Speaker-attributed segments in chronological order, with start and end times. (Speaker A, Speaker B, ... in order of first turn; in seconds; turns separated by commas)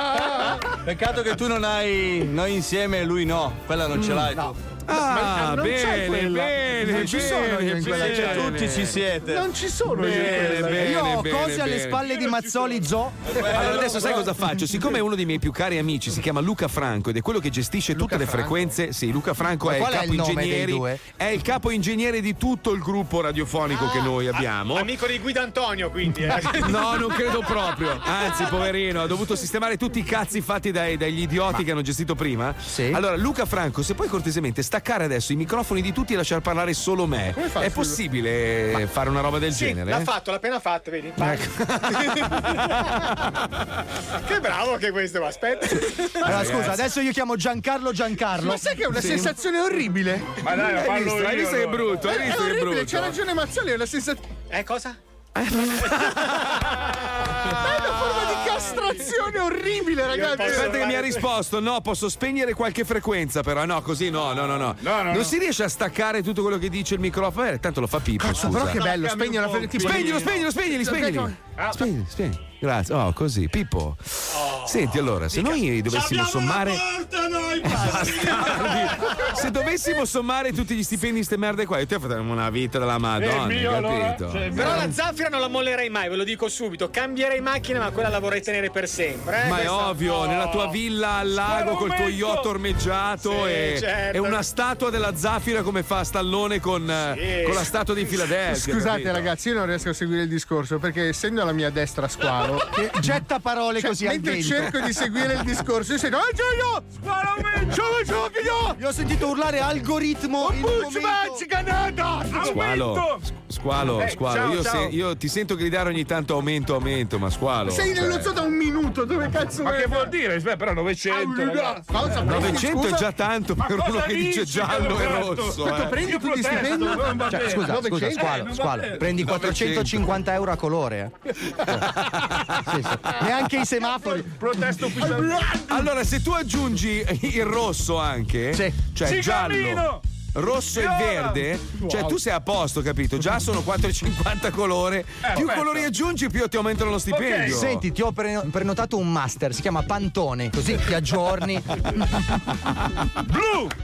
Speaker A: 0.8-4.6, Speaker B: 4.0-4.3, Speaker B: 4.9-9.0, Speaker C: 5.0-8.5, Speaker D: 6.9-7.9, Speaker A: 7.8-9.5, Speaker C: 9.3-10.9, Speaker B: 10.0-12.1, Speaker A: 10.3-10.8, Speaker D: 10.7-13.2, Speaker E: 12.2-12.8, Speaker A: 13.3-14.2, Speaker B: 13.5-24.9, Speaker C: 17.9-18.6, Speaker D: 19.6-21.0, Speaker F: 23.7-27.6, Speaker B: 26.4-40.1, Speaker D: 32.7-33.0, Speaker C: 37.4-38.0, Speaker F: 39.5-41.5, Speaker B: 41.3-42.8, Speaker F: 42.0-42.3, Speaker F: 44.2-46.6, Speaker D: 46.2-48.6, Speaker B: 46.3-46.8, Speaker C: 48.4-50.3, Speaker B: 49.0-49.3, Speaker E: 50.4-52.0, Speaker B: 50.5-53.2, Speaker C: 52.0-54.2, Speaker F: 54.5-55.0, Speaker B: 55.4-56.6, Speaker C: 57.5-60.8, Speaker F: 60.2-61.2, Speaker E: 60.4-60.7, Speaker B: 60.4-68.8, Speaker E: 64.8-65.3, Speaker C: 68.3-71.3, Speaker E: 68.4-70.5, Speaker B: 69.8-76.8, Speaker E: 75.4-79.2, Speaker B: 77.6-84.9, Speaker E: 83.2-84.9, Speaker F: 84.5-90.7, Speaker B: 89.4-99.3, Speaker E: 91.4-92.5, Speaker F: 93.2-94.4, Speaker F: 97.2-97.7, Speaker C: 98.5-102.8, Speaker D: 102.7-104.8, Speaker C: 103.8-108.8, Speaker E: 107.0-107.9, Speaker D: 108.8-111.5, Speaker C: 110.4-112.6, Speaker E: 112.3-113.2, Speaker B: 112.4-118.3, Speaker E: 113.9-114.9, Speaker C: 117.7-120.1, Speaker E: 119.6-122.6, Speaker C: 121.1-123.1, Speaker B: 122.2-126.2, Speaker E: 123.6-129.3, Speaker C: 125.7-128.4, Speaker D: 127.2-131.1, Speaker B: 129.2-129.9, Speaker B: 131.9-132.4, Speaker D: 132.6-135.1, Speaker E: 134.1-135.9, Speaker B: 135.7-147.8, Speaker E: 139.0-140.0, Speaker E: 140.7-142.2, Speaker E: 145.2-145.9, Speaker E: 147.1-147.6, Speaker D: 147.4-151.7, Speaker E: 153.3-153.7